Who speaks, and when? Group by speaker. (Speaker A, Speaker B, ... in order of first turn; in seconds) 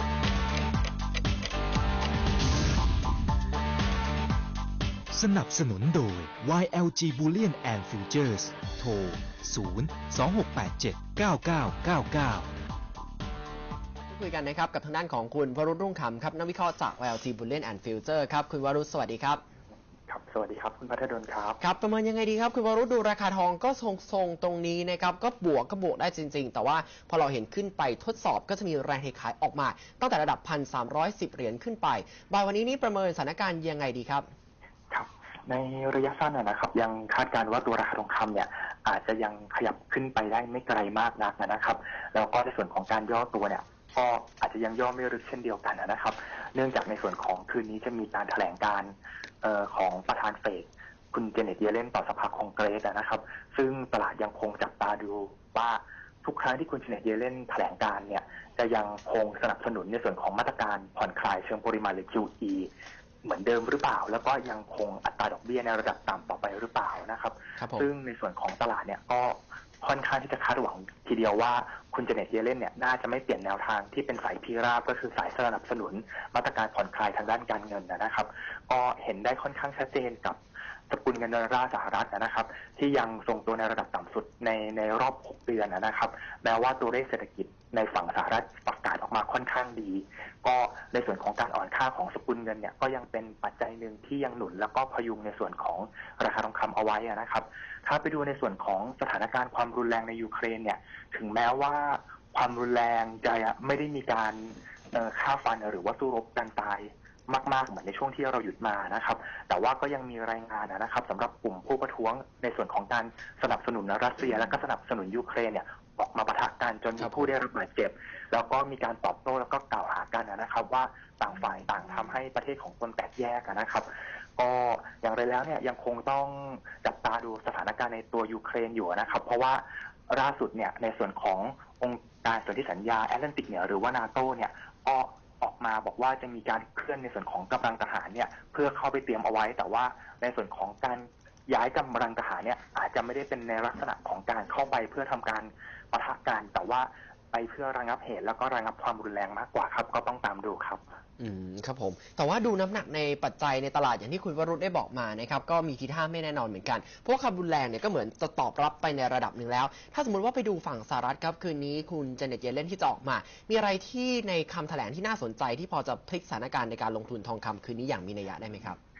Speaker A: 5.1-12.5
Speaker B: 14.1-19.4, 21.6-34.2, 67.6-67.9, 117.0-117.3, 151.2-168.8
Speaker C: 20.1-21.6, 34.9-62.7, 63.2-80.4, 80.9-150.8